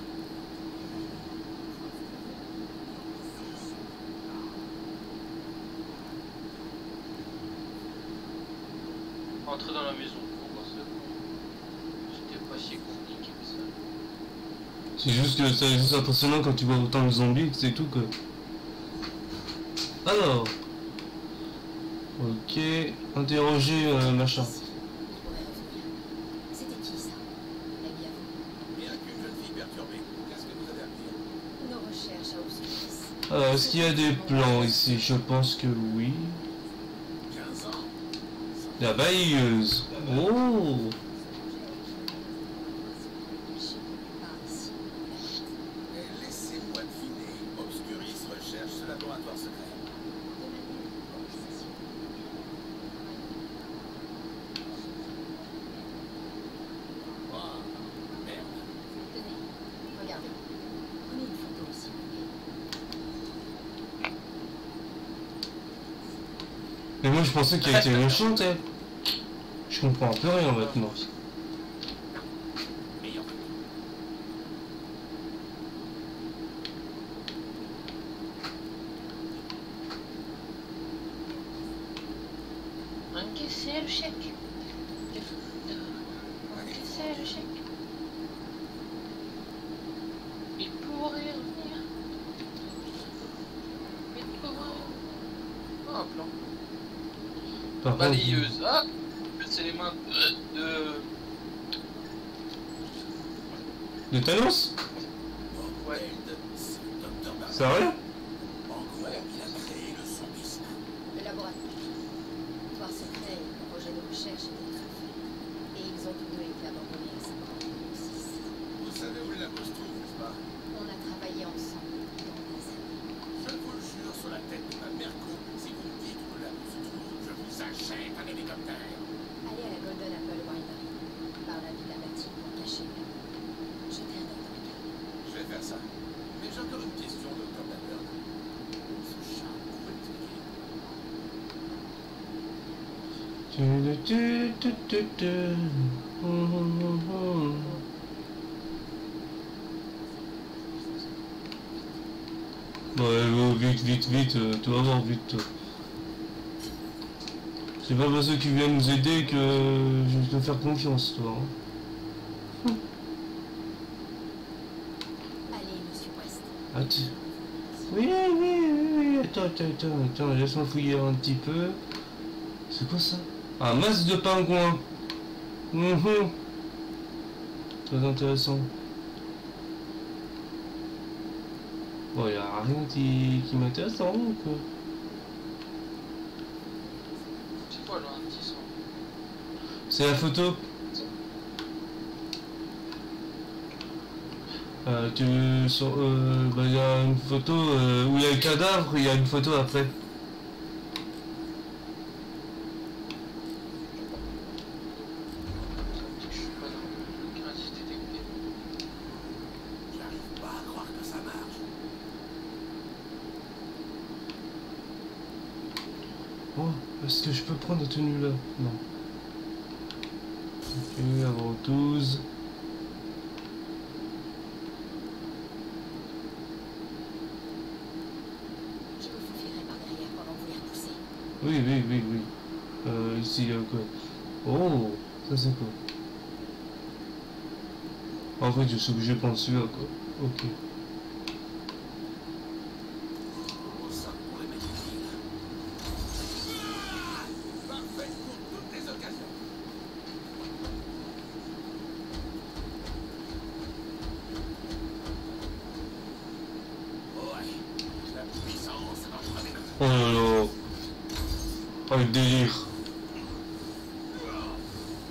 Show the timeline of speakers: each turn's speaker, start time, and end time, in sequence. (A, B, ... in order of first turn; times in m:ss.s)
0:09.4-0:11.2 A
0:12.1-0:13.7 A
0:15.0-0:18.1 B
0:20.0-0:20.5 B
0:22.2-0:24.5 B
0:23.8-0:25.9 C
0:26.5-0:28.5 C
0:28.7-0:31.2 D
0:31.6-0:34.9 C
0:33.3-0:36.4 B
0:37.3-0:37.9 D
0:38.8-0:41.0 B
0:41.0-0:45.4 C
0:45.9-0:49.8 D
0:50.3-0:52.0 C
0:52.9-0:53.5 C
0:54.8-0:55.5 C
0:57.3-0:58.6 D
0:59.0-1:00.4 C
1:01.0-1:02.3 C
1:07.0-1:08.6 B
1:07.6-1:08.4 A
1:09.7-1:11.0 B
1:10.5-1:11.1 A
1:13.0-1:13.5 D
1:23.1-1:24.3 A
1:25.1-1:27.6 A
1:26.5-1:27.5 D
1:30.6-1:31.8 A
1:34.1-1:35.0 A
1:35.8-1:36.3 A
1:37.8-1:38.5 B
1:38.0-1:41.1 A
1:44.1-1:44.8 B
1:45.5-1:47.8 D
1:47.5-1:48.0 B
1:48.7-1:50.8 D
1:51.1-1:51.6 C
1:52.7-1:55.1 C
1:55.7-1:58.6 C
1:58.8-2:00.4 D
2:00.7-2:03.1 C
2:03.4-2:09.1 D
2:09.4-2:10.9 C
2:11.4-2:13.1 C
2:13.9-2:14.8 C
2:15.2-2:18.2 D
2:19.0-2:20.6 D
2:23.5-2:27.8 B
2:33.0-2:35.5 B
2:37.8-2:41.5 B
2:45.5-2:46.6 C
2:46.7-2:47.1 B
2:47.7-2:48.0 C
2:47.9-2:51.8 B
2:52.7-2:54.8 B
2:55.7-2:56.3 B
2:57.9-2:58.7 B
3:02.1-3:04.6 B
3:07.7-3:08.7 A
3:09.9-3:10.7 B
3:14.8-3:19.9 B
3:23.8-3:24.2 A
3:25.9-3:28.3 A
3:29.9-3:31.6 D
3:36.6-3:38.8 B
3:40.8-3:42.2 B
3:49.0-3:51.0 C
3:51.4-3:52.3 B
3:52.8-3:53.9 B
3:54.4-3:55.8 B
3:58.4-4:00.5 B
4:03.7-4:05.2 D
4:06.6-4:09.4 D
4:17.1-4:19.8 D
4:19.8-4:20.5 B
4:21.9-4:22.7 B